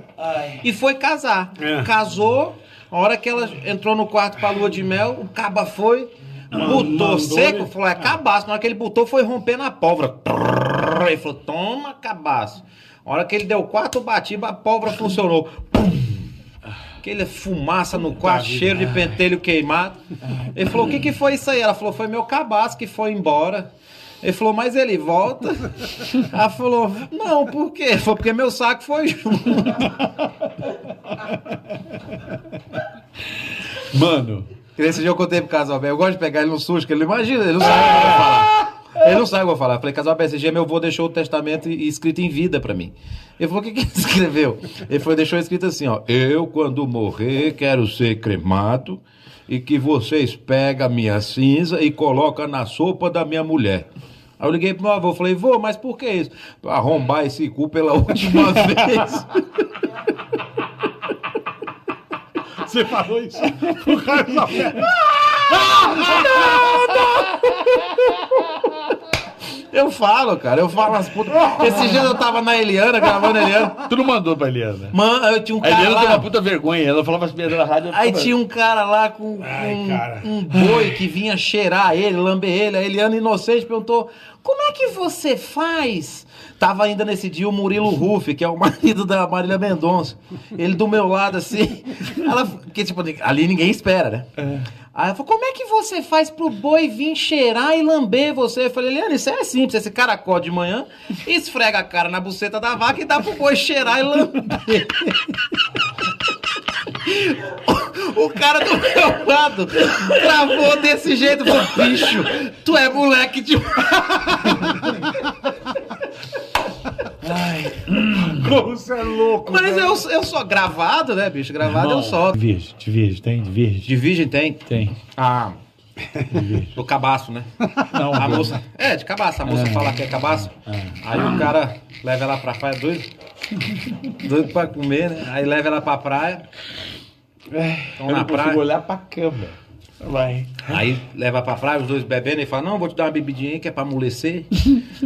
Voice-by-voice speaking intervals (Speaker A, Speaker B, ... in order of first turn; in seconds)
Speaker A: 0.2-0.6, 33.9-34.5, 37.6-38.4, 73.8-74.9, 75.6-78.3, 80.5-80.8, 117.2-118.5, 121.6-123.9, 124.7-124.9, 126.3-126.7, 127.9-128.6, 129.4-131.4, 137.6-140.6
Speaker B: 0.6-16.2, 17.0-20.0, 20.5-23.7, 24.2-29.9, 34.8-53.9, 54.4-59.4, 64.8-68.3, 69.7-73.8, 74.9-76.3, 77.9-94.3, 94.9-105.2, 107.0-114.4, 119.4-122.4, 123.8-125.6, 126.7-127.5, 128.1-133.1, 134.2-136.4, 138.0-138.6, 140.7-144.5
Speaker C: 1.6-1.9, 6.5-7.7, 18.2-18.9, 62.6-64.9, 65.5-66.7, 79.4-80.3, 118.2-120.0, 126.1-126.7